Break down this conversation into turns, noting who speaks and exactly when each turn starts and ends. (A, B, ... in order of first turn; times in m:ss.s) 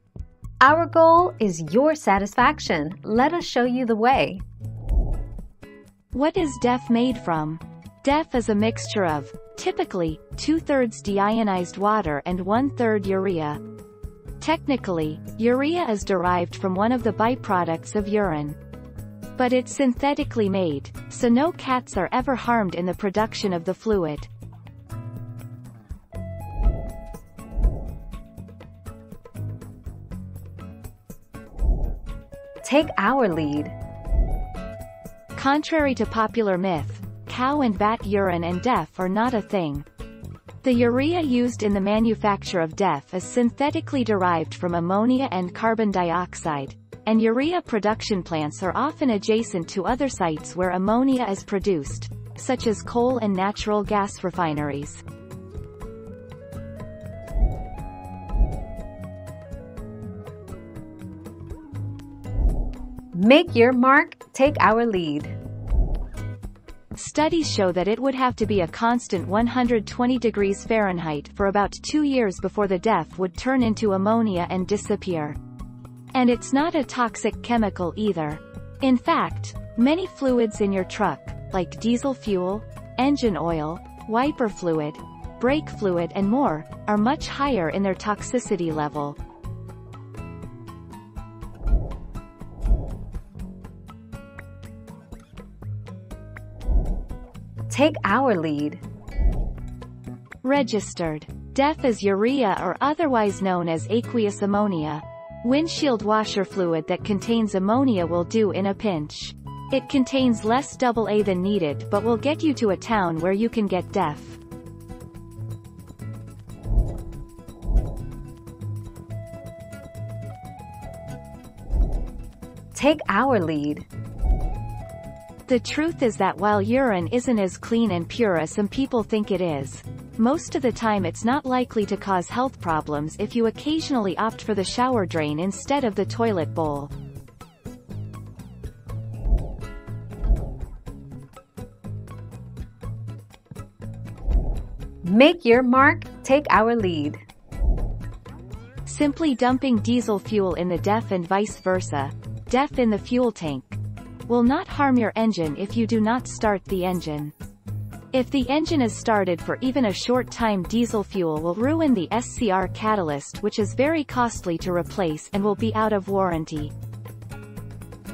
0:00.6-0:04.4 A
0:06.1-0:13.6 B
0:14.4-0:18.6 B
0:19.4-0:24.3 B
0:32.6-0:33.7 A
0:35.3-0:39.8 B
0:40.6-0:55.0 B
1:03.1-1:05.4 A
1:06.9-1:15.4 B
1:16.1-1:29.2 B
1:37.7-1:38.8 A
1:40.4-1:54.4 B
2:02.7-2:03.9 A
2:05.5-2:16.9 B
2:25.0-2:27.2 A
2:28.9-2:37.3 B
2:38.1-2:46.7 B